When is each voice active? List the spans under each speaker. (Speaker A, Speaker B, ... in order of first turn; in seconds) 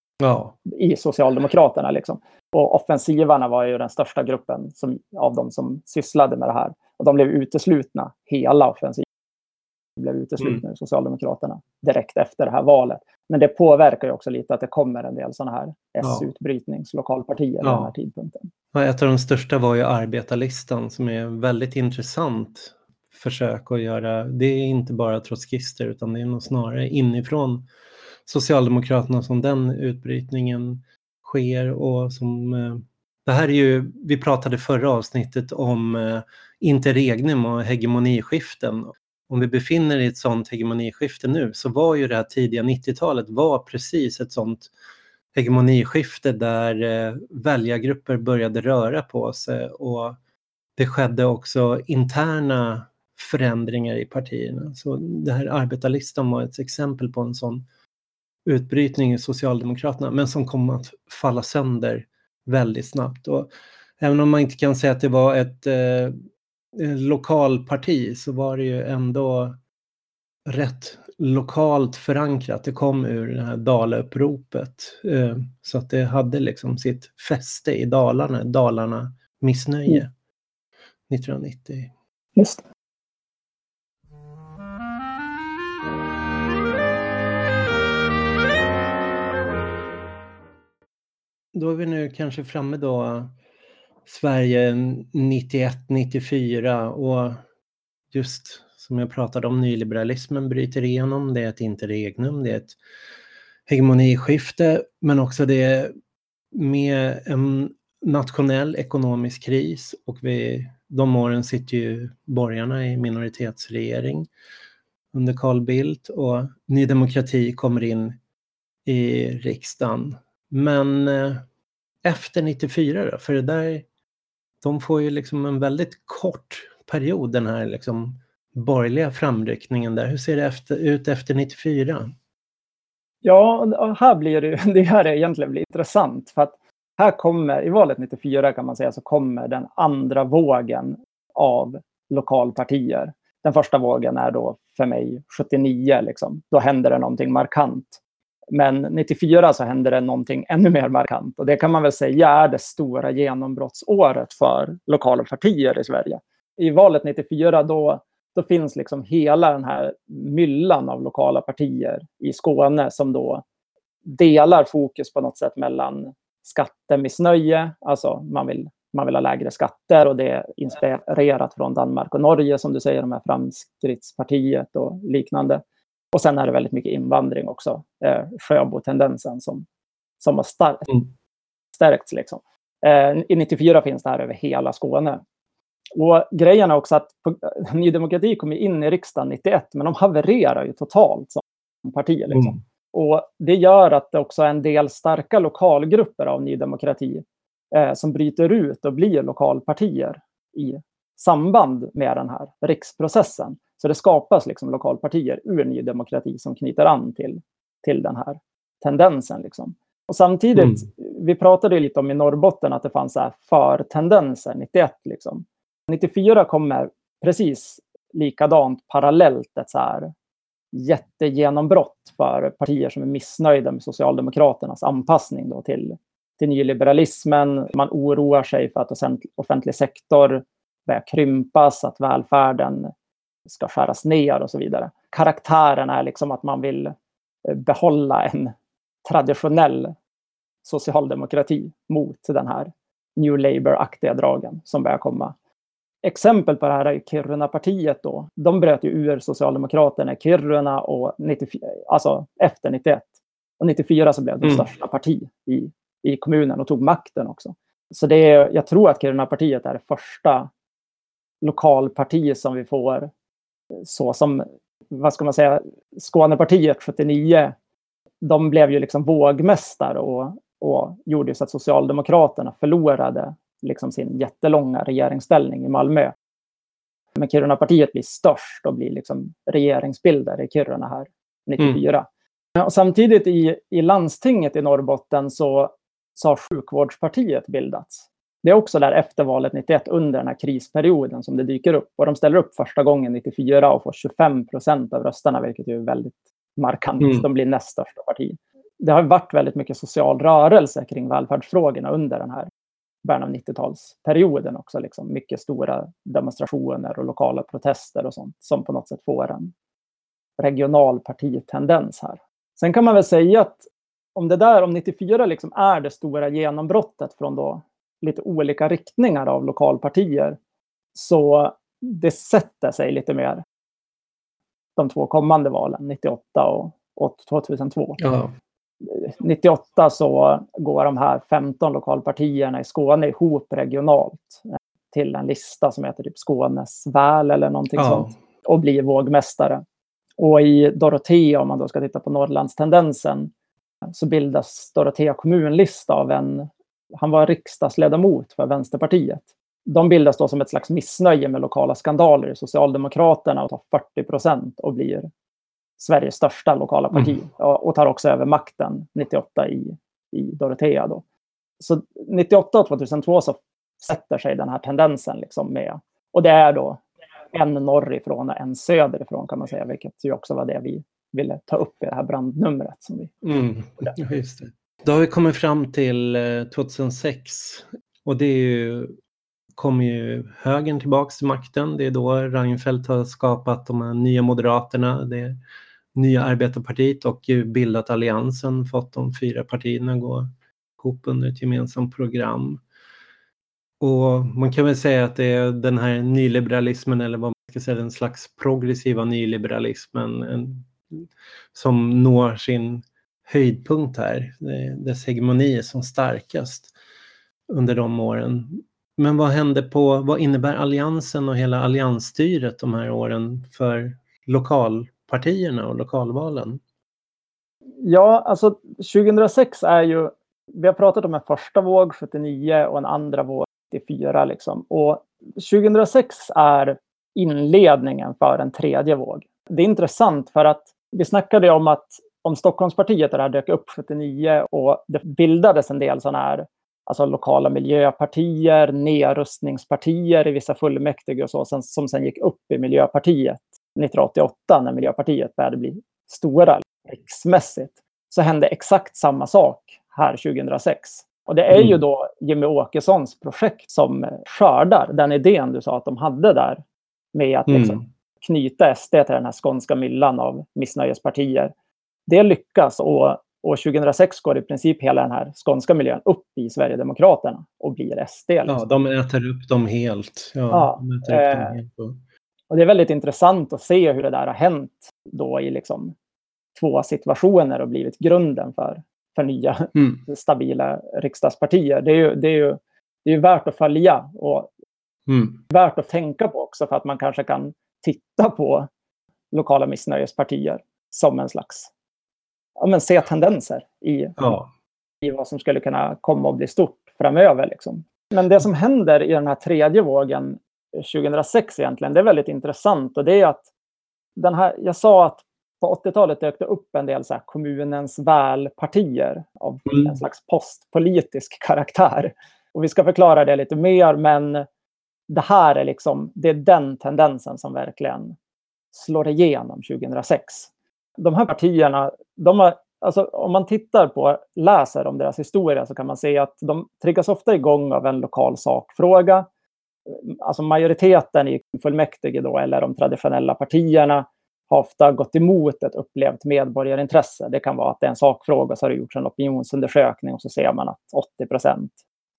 Speaker A: 0.2-0.6, 17.6-17.9, 18.7-27.7, 28.3-44.7, 45.3-50.2, 50.8-57.6, 58.5-66.2, 66.8-69.6, 70.5-80.1, 81.1-81.9, 91.5-93.3, 94.0-97.4, 98.1-102.8, 103.7-105.9, 106.5-114.3, 115.1-118.2, 118.8-121.4, 122.0-123.9, 124.6-132.1, 297.0-297.2, 328.0-328.3, 337.8-338.1, 373.2-379.0, 379.6-385.4, 385.9-392.6, 393.8-406.7, 407.5-416.6, 451.5-451.8, 457.5-457.8, 468.5-472.0, 485.1-485.4, 494.2-494.5
Speaker B: 0.7-9.1, 10.0-18.5, 82.4-82.6, 133.2-148.0, 148.5-163.4, 164.1-175.6, 176.1-179.7, 180.2-180.9, 181.8-185.2, 185.9-220.1, 220.7-232.9, 233.5-236.9, 237.5-238.5, 239.1-239.9, 240.6-245.3, 246.0-260.5, 261.4-263.1, 263.8-267.5, 268.2-276.1, 277.2-282.1, 282.6-302.5, 303.0-309.5, 310.4-320.4, 320.9-323.4, 324.8-328.0, 328.9-339.6, 340.2-343.3, 343.9-355.1, 355.8-361.0, 361.6-366.8, 367.3-373.1, 417.8-456.6, 457.1-461.5, 462.1-468.6, 470.5-471.6, 472.5-475.9, 476.6-484.5, 485.5-488.7, 489.3-491.7, 492.6-494.2, 495.0-503.4, 504.2-514.5, 515.1-518.1, 518.7-529.3, 529.9-541.7